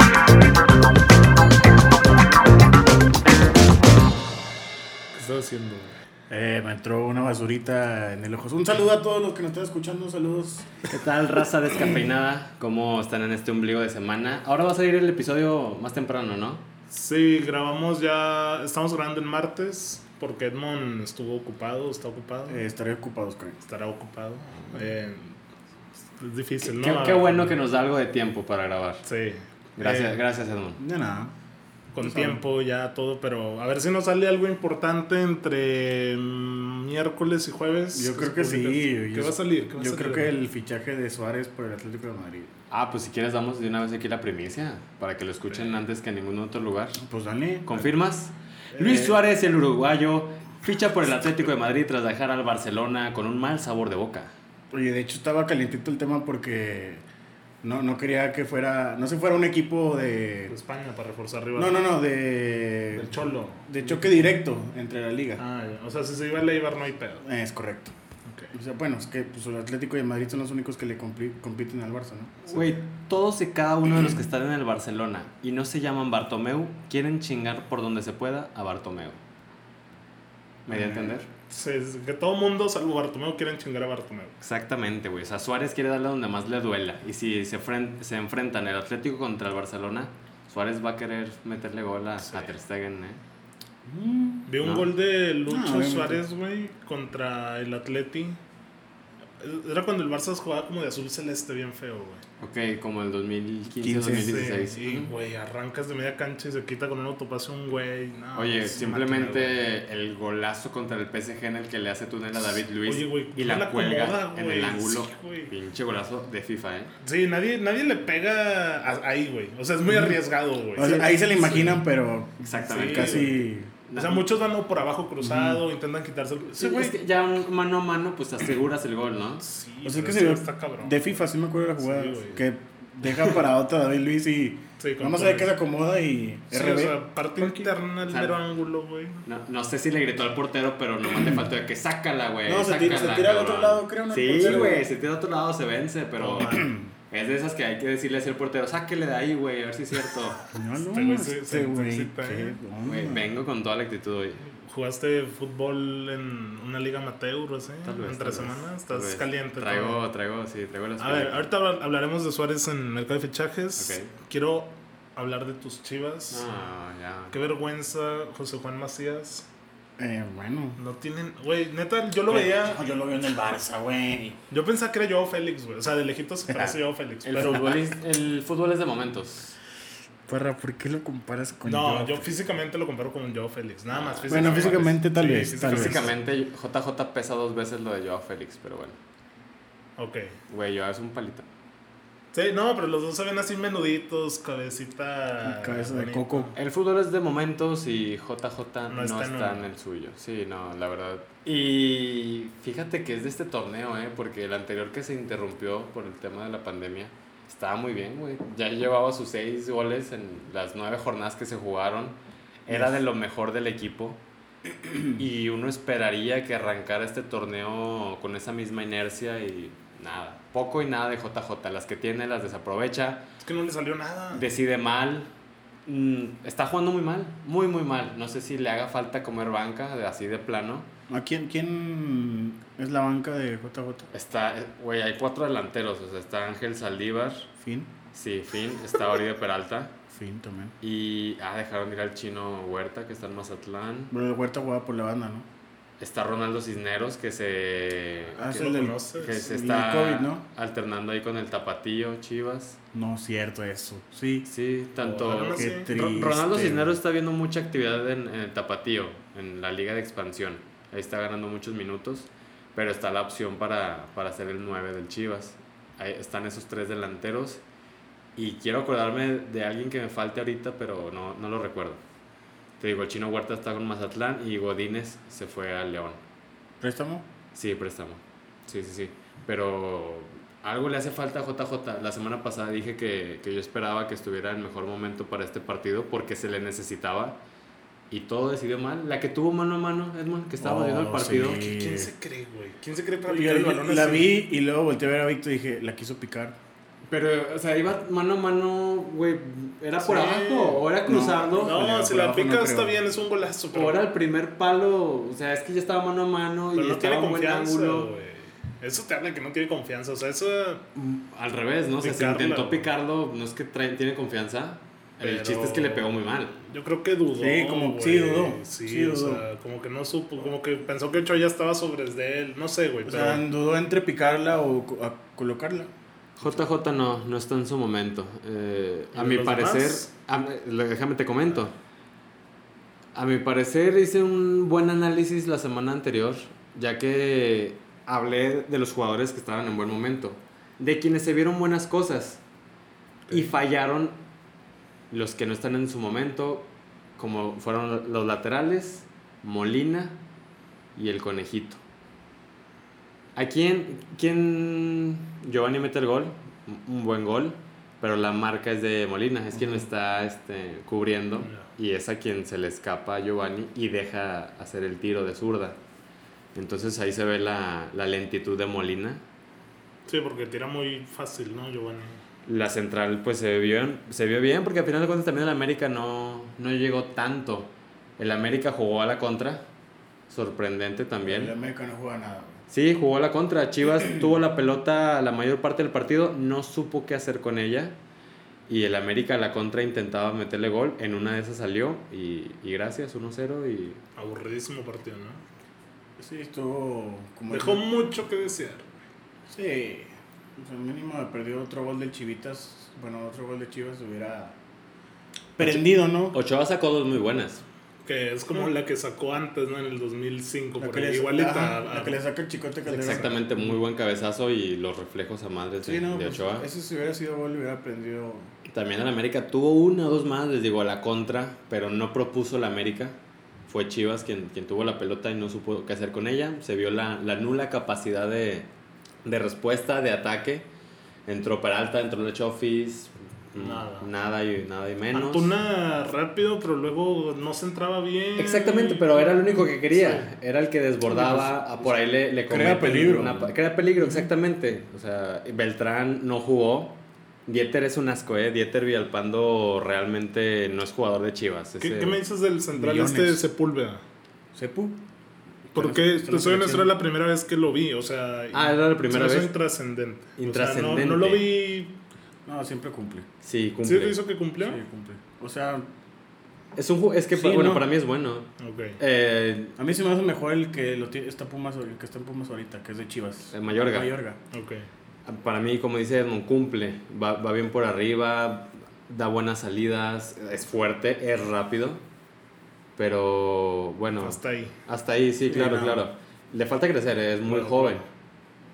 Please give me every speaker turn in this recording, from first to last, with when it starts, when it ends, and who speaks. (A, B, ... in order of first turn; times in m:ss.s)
0:05.1-0:06.0 A
0:06.3-0:10.8 B
0:10.9-0:16.6 C
0:16.9-0:22.6 A
0:22.5-0:23.6 B
0:23.6-0:25.4 A
0:26.2-0:27.6 A
0:26.6-0:29.0 C
0:29.0-0:30.2 A
0:29.8-0:30.8 C
0:30.8-0:31.3 B
0:31.9-0:40.3 A
0:32.0-0:32.4 B
0:37.9-0:42.5 B
0:42.7-0:47.0 C
0:45.5-0:45.8 A
0:47.0-0:47.9 B
0:47.6-0:54.3 C
0:48.7-0:49.3 B
0:54.7-0:57.0 B
0:57.6-1:00.5 B
1:00.5-1:01.9 A
1:01.6-1:03.1 B
1:02.9-1:04.3 A
1:03.7-1:05.4 B
1:05.4-1:07.2 A
1:07.2-1:07.9 B
1:08.2-1:08.5 A
1:08.5-1:12.6 B
1:12.5-1:19.2 C
1:20.6-1:21.1 B
1:20.7-1:21.3 C
1:21.5-1:24.4 A
1:24.4-1:33.2 C
1:32.2-1:32.5 A
1:33.8-1:34.5 B
1:34.4-1:38.4 A
1:34.6-1:34.9 C
1:35.5-1:36.2 B
1:39.4-1:42.2 A
1:42.4-1:45.1 C
1:43.8-1:44.4 B
1:44.2-1:49.6 A
1:48.3-1:56.9 C
1:52.8-1:55.5 A
1:57.0-2:01.8 A
2:00.7-2:03.7 B
2:00.8-2:01.0 C
2:02.4-2:04.3 C
2:02.6-2:03.3 A
2:03.9-2:07.0 A
2:05.2-2:05.6 B
2:06.5-2:09.4 C
2:09.4-2:11.2 A
2:09.8-2:17.7 B
2:11.8-2:12.4 A
2:14.8-2:15.6 A
2:16.5-2:19.2 A
2:18.1-2:18.4 C
2:19.2-2:30.4 C
2:21.1-2:21.5 B
2:22.4-2:24.9 B
2:26.2-2:26.6 A
2:26.3-2:26.9 B
2:30.5-2:33.4 B
2:30.9-2:32.6 A
2:32.8-2:34.4 C
2:34.5-2:40.0 A
2:37.8-2:41.5 C
2:41.0-2:46.4 A
2:43.8-2:44.1 C
2:46.3-2:47.3 C
2:47.3-2:49.5 A
2:50.0-2:50.8 B
2:50.8-2:52.8 A
2:52.3-2:54.4 B
2:54.5-2:57.8 A
2:57.2-2:59.6 C
3:00.3-3:02.3 B
3:01.6-3:06.1 A
3:03.9-3:04.9 C
3:04.3-3:06.1 B
3:05.6-3:09.0 C
3:10.0-3:10.4 A
3:10.5-3:11.4 C
3:12.3-3:16.5 A
3:15.4-3:16.5 B
3:16.5-3:34.2 C
3:18.9-3:19.6 A
3:32.7-3:33.0 B
3:35.1-3:43.3 C
3:43.4-3:44.4 A
3:44.3-3:45.3 C
3:45.8-3:50.9 C
3:51.1-3:54.1 B
3:54.1-3:57.5 C
3:57.6-3:57.9 B
3:58.1-4:00.0 C
4:00.1-4:00.8 B
4:00.8-4:04.1 C
4:04.1-4:05.5 B
4:06.0-4:12.8 C
4:08.3-4:10.4 B
4:08.4-4:09.5 A
4:12.9-4:14.5 B
4:14.5-4:27.6 C
4:15.0-4:15.9 A
4:15.5-4:17.0 B
4:28.4-4:32.0 C
4:32.8-4:36.2 C
4:36.8-4:37.3 B
4:37.5-4:47.4 C
4:48.1-4:51.6 C
4:50.6-4:52.1 B
4:51.5-4:54.4 A
4:53.2-4:56.6 B
4:57.1-5:01.8 C
5:00.0-5:00.8 A
5:00.0-5:03.0 B
5:01.6-5:04.0 A
5:03.7-5:08.1 C
5:06.7-5:10.8 A
5:10.9-5:16.5 C
5:12.0-5:12.9 A
5:15.2-5:23.4 A
5:17.4-5:19.4 B
5:23.0-5:25.9 B
5:26.4-5:31.7 C
5:29.1-5:30.1 A
5:33.1-5:42.4 C
5:43.3-5:44.2 C
5:45.1-5:50.2 C
5:51.0-5:51.8 C
5:53.3-6:05.8 C
5:59.5-5:59.8 B
6:01.4-6:01.7 A
6:06.5-6:09.2 C
6:10.1-6:12.2 A
6:12.4-6:19.6 C
6:20.3-6:21.5 C
6:21.2-6:22.6 B
6:22.7-6:28.0 C
6:28.7-6:34.0 C
6:34.2-6:35.4 A
6:36.2-6:37.8 B
6:37.5-6:39.0 A
6:39.5-6:44.6 B
6:45.6-6:46.4 B
6:45.6-6:47.6 C
6:48.0-6:52.2 A
6:50.8-6:53.5 B
6:52.8-6:56.6 C
6:55.8-6:58.5 B
6:58.7-7:08.7 C
7:09.2-7:10.6 C
7:11.2-7:15.5 C
7:13.5-7:14.1 A
7:15.1-7:20.3 A
7:18.4-7:32.2 C
7:21.1-7:21.6 B
7:22.5-7:23.5 B
7:31.8-7:34.0 A
7:32.7-7:33.4 B
7:34.5-7:35.0 B
7:35.7-7:36.9 B
7:35.7-7:42.0 A
7:38.5-7:39.5 C
7:40.4-7:41.5 C
7:42.4-7:43.3 B
7:43.4-7:44.2 C
7:43.8-7:44.8 A
7:44.6-7:45.9 B
7:46.7-7:49.8 C
7:47.3-7:47.9 B
7:48.6-7:49.0 A
7:49.8-7:54.4 B
7:53.5-7:54.2 C
7:54.5-7:54.9 A
7:55.2-8:02.0 C
8:03.0-8:08.0 C
8:04.2-8:04.8 A
8:05.4-8:06.0 B
8:07.5-8:08.0 A